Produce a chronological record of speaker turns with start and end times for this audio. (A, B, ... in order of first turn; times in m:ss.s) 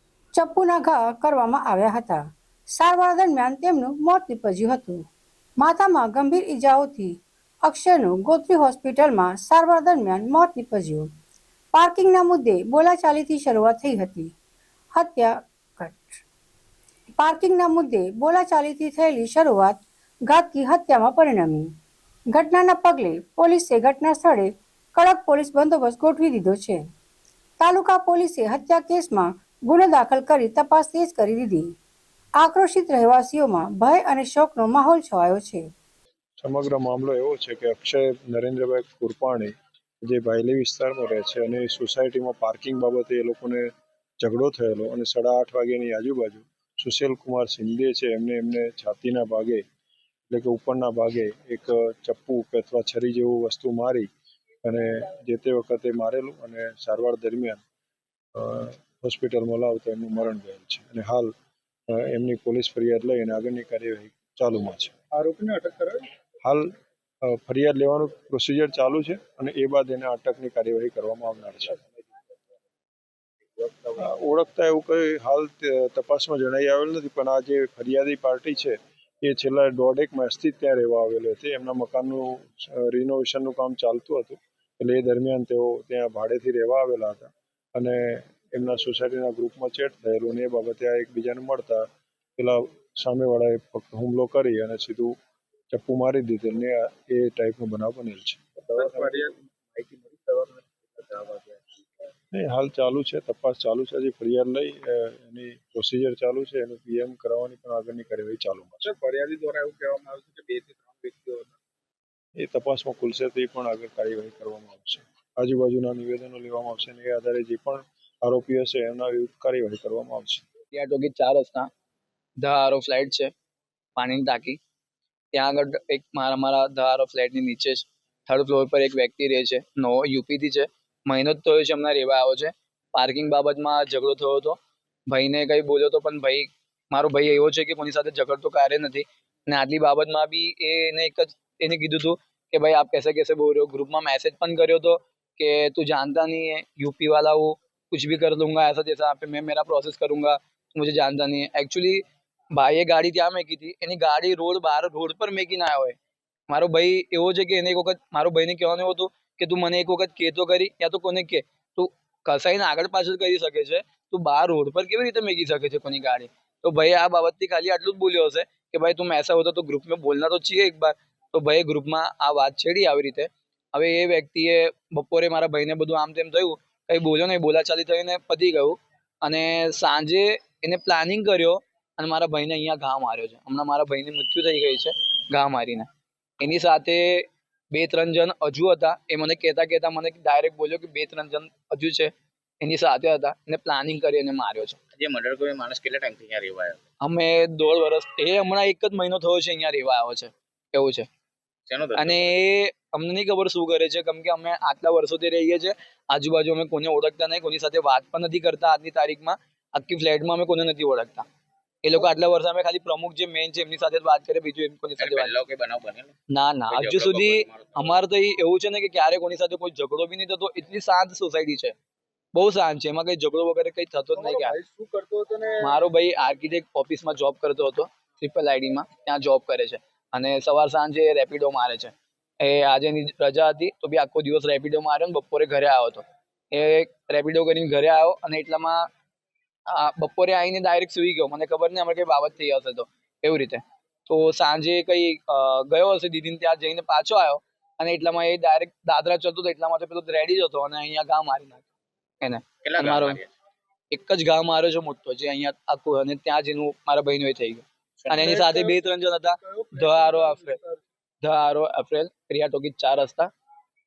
0:00.3-0:05.0 A
0:05.6-0:11.1 A
0:11.7-0:14.3 A
0:14.9-0:16.2 A
0:17.2-0:21.7 A
0:22.3-0:26.8 A
0:27.6-0:31.7 A
0:32.4-0:35.6 A
0:36.4-0:43.7 B
0:44.2-0:49.6 B
0:50.3-0:54.1 B
0:54.6-0:57.6 B
0:58.3-1:01.3 B
1:01.9-1:05.0 B
1:05.2-1:06.0 C
1:06.4-1:06.7 B
1:07.2-1:11.8 B
1:13.7-1:13.9 C
1:14.0-1:35.1 B
1:35.7-1:38.5 B
1:38.6-1:41.9 C
1:42.3-1:48.9 B
1:48.8-1:51.6 C
1:52.4-2:00.4 B
2:00.7-2:01.7 D
2:02.4-2:03.3 D
2:04.0-2:04.6 D
2:05.3-2:14.6 D
2:15.1-2:36.0 D
2:36.5-3:05.9 D
3:06.4-3:14.8 D
3:14.9-3:16.8 E
3:17.0-3:21.1 D
3:21.7-3:22.4 E
3:22.0-3:31.2 D
3:31.8-3:35.3 D
3:35.0-3:36.1 E
3:36.3-3:41.7 D
3:36.7-3:38.0 E
3:42.3-3:44.6 D
3:44.1-3:45.8 C
3:45.6-3:58.8 D
3:59.7-4:11.6 D
4:12.2-4:13.2 D
4:12.6-4:13.3 E
4:13.9-4:20.6 D
4:18.1-4:18.8 C
4:19.7-4:20.8 C
4:21.2-4:23.3 D